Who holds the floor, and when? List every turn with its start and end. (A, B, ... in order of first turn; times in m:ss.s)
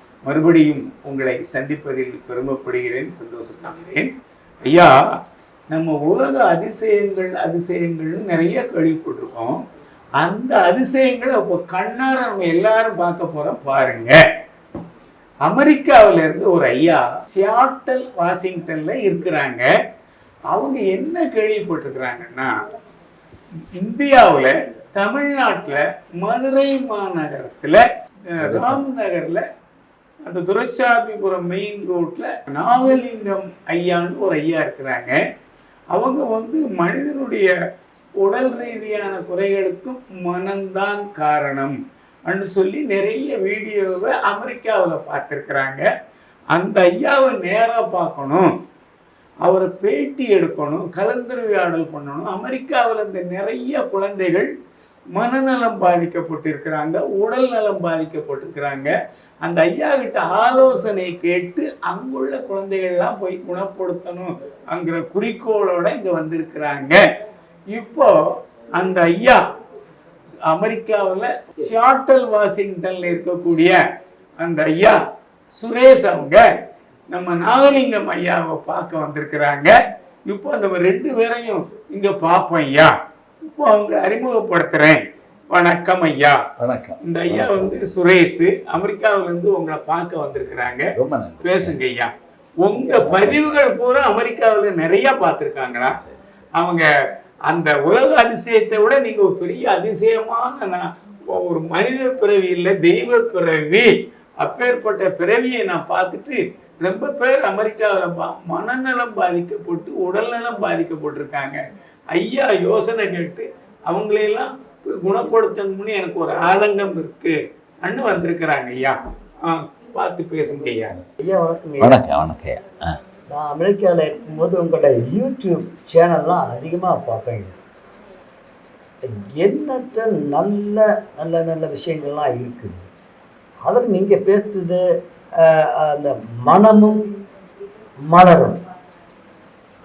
0:00.2-0:04.1 A
0:04.6-0:05.0 A
0:05.7-0:09.6 A
0:10.2-0:14.2 A
0:15.4-0:19.7 A
0:20.5-0:22.5 A
0:23.7-0:29.4 A
0:28.4-0:28.8 B
0:30.2-0:35.1 A
0:35.9-0:37.5 A
0:38.2-0:45.8 A
0:46.5-0:48.5 A
0:49.4-0:54.5 A
0:55.1-0:58.9 A
0:59.4-1:07.0 A
1:07.7-1:08.2 A
1:08.8-1:09.4 A
1:10.5-1:13.8 A
1:14.4-1:15.0 A
1:15.6-1:16.4 A
1:17.1-1:19.7 A
1:20.2-1:22.9 A
1:23.5-1:26.4 A
1:26.6-1:27.8 B
1:27.0-1:30.9 A
1:30.9-1:31.8 B
1:31.4-1:36.0 A
1:36.5-1:36.9 A
1:37.5-1:51.6 A
1:52.1-2:01.0 A
2:01.2-2:02.0 C
2:01.8-2:03.0 B
2:03.3-2:07.6 C
2:09.0-2:12.8 C
2:13.6-2:14.8 C
2:15.4-2:17.0 C
2:18.1-2:18.6 C